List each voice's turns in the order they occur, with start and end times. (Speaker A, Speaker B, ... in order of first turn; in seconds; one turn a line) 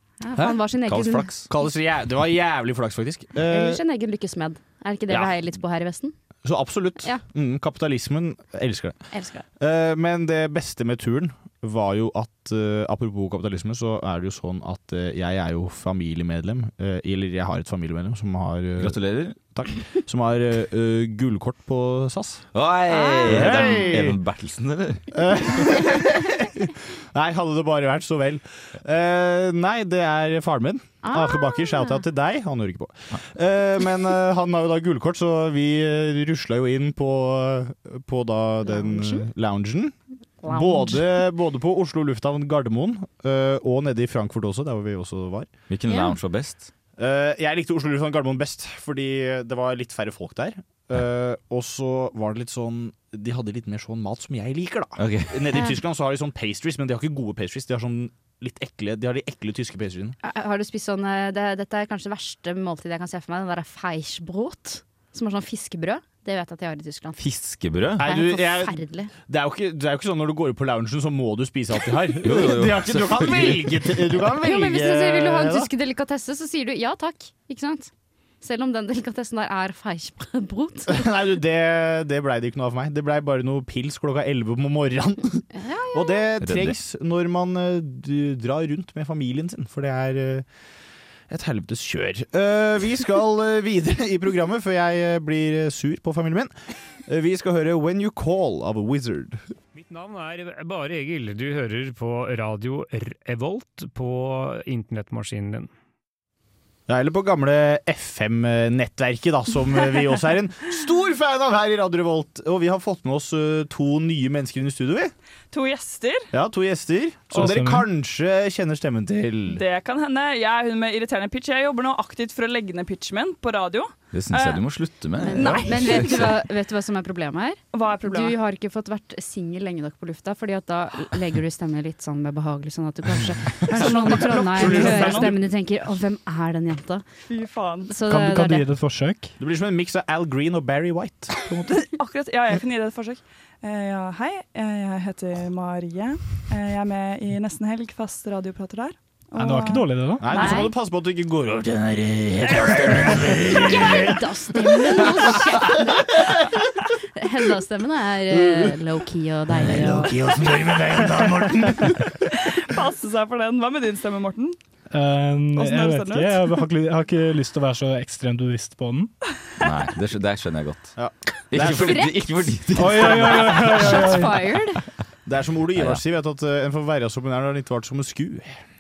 Speaker A: 0.2-1.3
Speaker B: 0.8-1.5
Speaker C: 1.5-3.8
Speaker A: 3.4-6.1
Speaker C: 6.4-9.0
Speaker A: 9.1-9.4
Speaker C: 9.6-22.5
Speaker B: 18.8-19.4
Speaker B: 22.5-25.7
Speaker A: 22.9-23.8
Speaker C: 23.2-24.2
Speaker C: 25.1-45.5
Speaker A: 31.0-32.0
Speaker A: 38.7-39.3
Speaker A: 40.4-41.0
Speaker B: 45.7-46.7
Speaker A: 45.9-46.1
Speaker C: 47.0-60.2
Speaker B: 55.0-55.4
Speaker A: 60.2-67.2
Speaker B: 67.2-68.1
Speaker C: 68.0-68.8
Speaker A: 68.0-69.1
Speaker C: 69.3-75.7
Speaker B: 72.2-74.0
Speaker A: 74.4-77.9
Speaker A: 78.4-81.0
Speaker C: 80.9-90.5
Speaker A: 85.5-86.3
Speaker B: 86.4-86.8
Speaker C: 91.3-96.5
Speaker C: 97.1-99.4
Speaker D: 99.7-105.7
Speaker C: 106.9-115.1
Speaker E: 115.5-116.3
Speaker C: 116.3-119.6
Speaker F: 117.3-117.9
Speaker E: 119.5-124.6
Speaker B: 124.1-126.3
Speaker A: 125.2-137.0
Speaker E: 125.4-126.2
Speaker E: 127.7-128.4
Speaker C: 133.7-135.3
Speaker E: 133.8-135.3
Speaker E: 137.3-137.9
Speaker A: 137.9-138.7
Speaker F: 138.1-139.3
Speaker C: 139.4-141.8
Speaker E: 141.7-150.6
Speaker F: 149.4-150.5
Speaker C: 150.2-156.6
Speaker A: 150.3-150.7
Speaker A: 153.9-156.3
Speaker A: 157.2-160.1
Speaker C: 158.3-158.7
Speaker C: 159.6-162.1
Speaker E: 162.3-164.6
Speaker F: 164.9-169.1
Speaker E: 165.6-166.6
Speaker B: 169.6-171.0
Speaker C: 171.0-172.1
Speaker B: 171.5-174.2
Speaker A: 171.6-172.5
Speaker F: 172.8-174.5
Speaker C: 173.1-173.8
Speaker A: 173.7-174.8
Speaker C: 175.3-178.6
Speaker B: 175.8-176.0